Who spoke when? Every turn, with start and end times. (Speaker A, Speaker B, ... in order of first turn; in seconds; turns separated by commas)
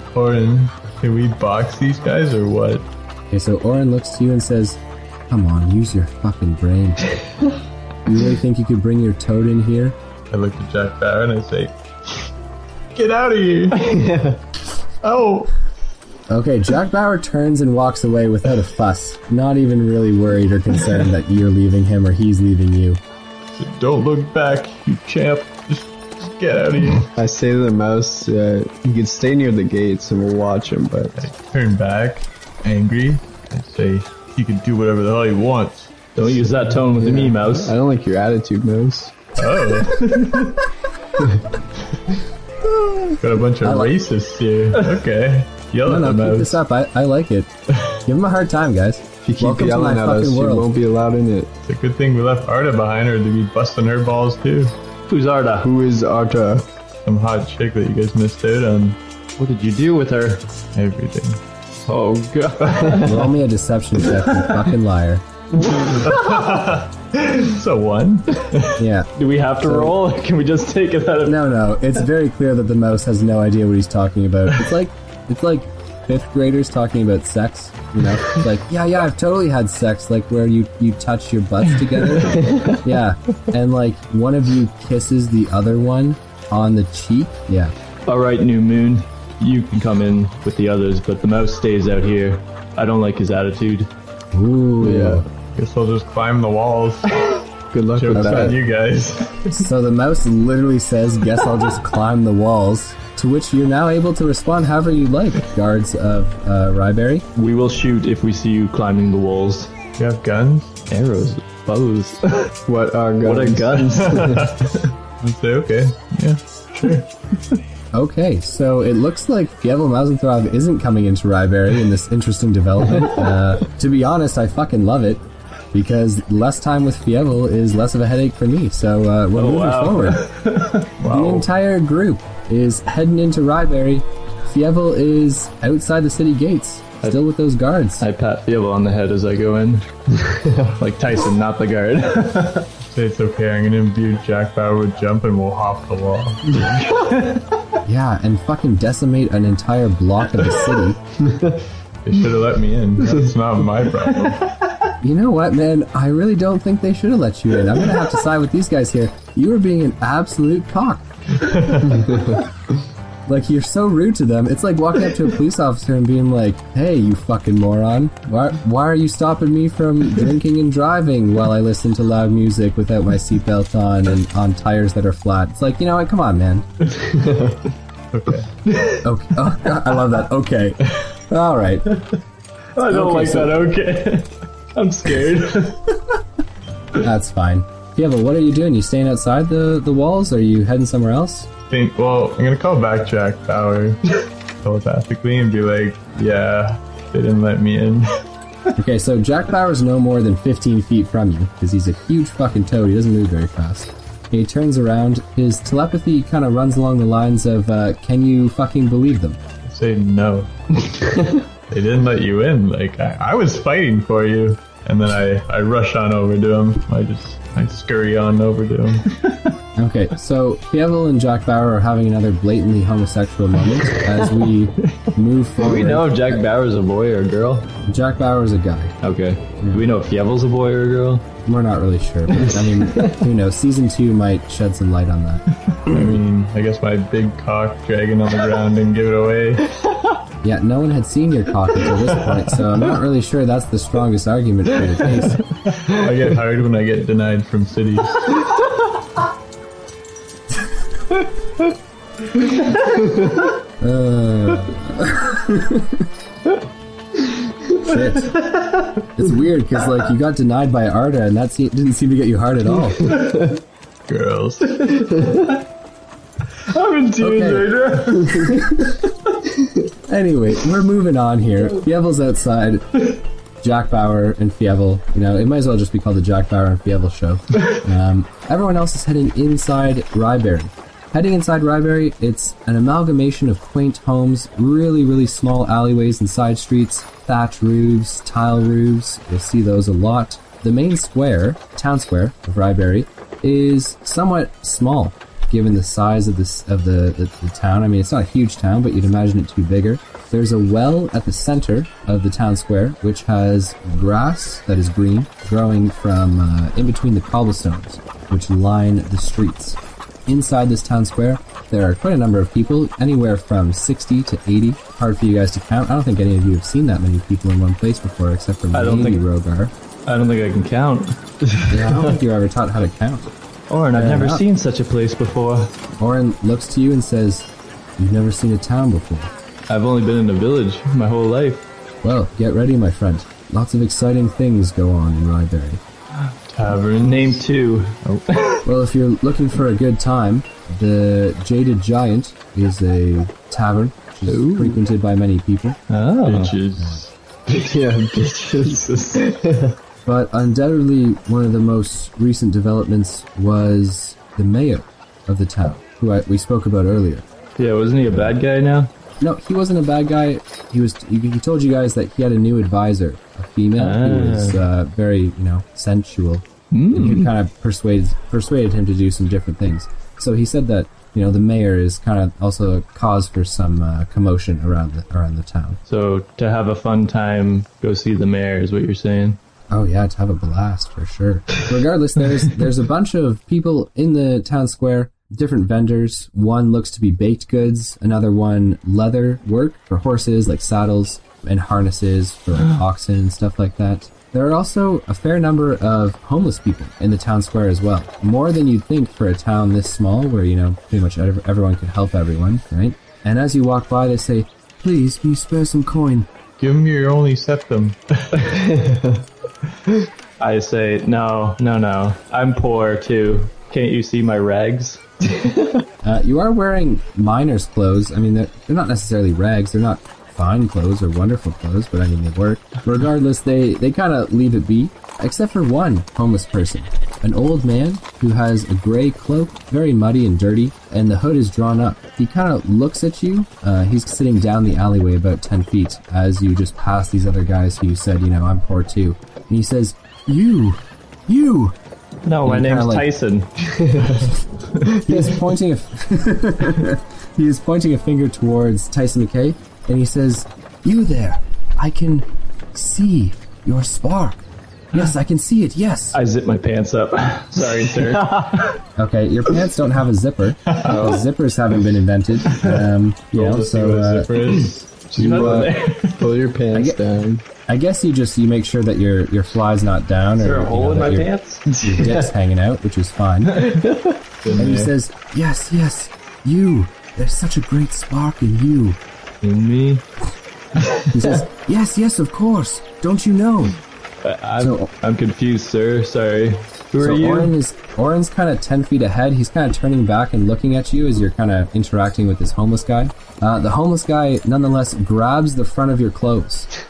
Speaker A: 0.1-2.9, Speaker B: 3.3-7.2, Speaker B: 8.1-10.0, Speaker A: 10.3-11.8, Speaker A: 12.9-14.0, Speaker C: 13.7-14.4, Speaker A: 15.0-15.5, Speaker B: 16.3-23.0, Speaker A: 23.6-27.1, Speaker C: 27.1-31.2, Speaker A: 31.1-36.5, Speaker D: 36.1-37.8, Speaker C: 36.9-39.2, Speaker A: 39.4-40.4, Speaker D: 39.9-40.6, Speaker A: 43.2-46.6, Speaker B: 43.6-43.9, Speaker B: 45.9-47.5, Speaker B: 48.0-50.7, Speaker C: 49.2-51.5, Speaker A: 51.6-54.7, Speaker D: 55.1-55.7, Speaker C: 55.6-56.7, Speaker A: 57.1-59.0, Speaker D: 59.4-60.4, Speaker A: 60.7-61.4, Speaker D: 61.9-63.3, Speaker B: 63.0-65.2, Speaker D: 65.7-66.1, Speaker A: 66.0-68.8, Speaker B: 68.8-69.1, Speaker D: 69.1-71.4, Speaker B: 69.6-70.0, Speaker B: 71.2-87.7, Speaker C: 82.3-82.8, Speaker D: 88.1-93.9, Speaker B: 94.3-95.3, Speaker C: 94.8-95.2, Speaker A: 95.5-97.4, Speaker C: 97.7-98.6, Speaker A: 97.9-99.6, Speaker B: 98.1-98.5, Speaker B: 99.5-107.3, Speaker D: 107.3-109.7, Speaker A: 110.0-110.7, Speaker D: 110.9-112.5, Speaker C: 112.7-114.5, Speaker D: 113.2-114.4, Speaker A: 114.0-117.0, Speaker B: 117.9-130.3, Speaker D: 129.3-130.9, Speaker A: 131.0-131.5, Speaker B: 131.1-138.1, Speaker D: 138.0-139.9, Speaker C: 140.2-140.8, Speaker D: 140.8-142.7, Speaker A: 142.9-146.7, Speaker D: 146.8-147.4, Speaker B: 147.8-151.0, Speaker C: 151.2-151.6, Speaker A: 152.1-154.5, Speaker B: 155.0-161.1, Speaker A: 161.4-162.2, Speaker C: 161.9-162.4, Speaker B: 163.3-176.7, Speaker C: 176.8-177.6, Speaker A: 178.1-178.6, Speaker B: 179.0-181.9, Speaker D: 182.8-185.8, Speaker B: 182.9-183.5, Speaker B: 187.0-191.5, Speaker A: 191.7-198.1, Speaker B: 198.8-209.4, Speaker A: 209.6-211.1, Speaker A: 211.7-219.1, Speaker B: 219.8-226.3, Speaker D: 225.6-227.7, Speaker B: 227.8-229.0, Speaker D: 229.0-231.3, Speaker B: 229.6-229.9, Speaker B: 231.4-235.4, Speaker D: 232.4-232.7, Speaker A: 235.8-239.8, Speaker B: 240.4-245.4, Speaker A: 245.7-248.4, Speaker B: 253.8-256.1, Speaker B: 257.8-258.5, Speaker B: 259.1-263.1, Speaker C: 263.0-263.5, Speaker A: 264.1-265.1, Speaker D: 266.7-268.6, Speaker B: 267.2-267.8, Speaker B: 268.4-269.0, Speaker B: 270.1-319.7, Speaker D: 318.7-319.2, Speaker D: 320.1-321.2, Speaker B: 321.7-323.3, Speaker D: 323.7-325.7, Speaker B: 323.9-324.4, Speaker B: 326.0-329.3, Speaker D: 329.7-331.6, Speaker B: 332.0-335.8, Speaker A: 336.5-337.4, Speaker D: 337.0-338.6, Speaker B: 338.6-345.8, Speaker C: 344.3-344.8, Speaker D: 345.9-346.6, Speaker A: 346.2-347.1, Speaker B: 346.8-347.0, Speaker C: 347.5-349.8, Speaker B: 350.1-357.2, Speaker D: 357.6-358.9, Speaker B: 358.1-358.3, Speaker B: 359.2-375.8, Speaker D: 363.8-364.6, Speaker D: 366.7-367.3, Speaker D: 375.9-379.4, Speaker B: 379.7-406.3, Speaker A: 406.6-408.6, Speaker C: 408.4-409.2, Speaker D: 410.4-415.0, Speaker B: 416.0-441.8, Speaker D: 442.3-443.5, Speaker B: 442.4-443.1, Speaker C: 443.7-444.3, Speaker C: 444.9-445.3, Speaker B: 445.0-454.4, Speaker B: 454.9-456.2, Speaker D: 456.1-458.7, Speaker B: 459.0-464.3, Speaker A: 460.7-461.1, Speaker D: 460.9-461.2, Speaker A: 462.6-465.6, Speaker D: 464.5-466.3, Speaker C: 465.2-467.4, Speaker B: 465.3-465.7, Speaker B: 466.7-467.0, Speaker B: 467.7-473.7, Speaker D: 470.4-471.7, Speaker C: 471.7-472.3, Speaker C: 473.6-474.2, Speaker A: 474.4-474.9, Speaker B: 474.6-479.0, Speaker D: 479.4-480.1, Speaker B: 481.1-483.8, Speaker D: 484.2-487.5, Speaker B: 484.6-484.9, Speaker B: 487.0-496.7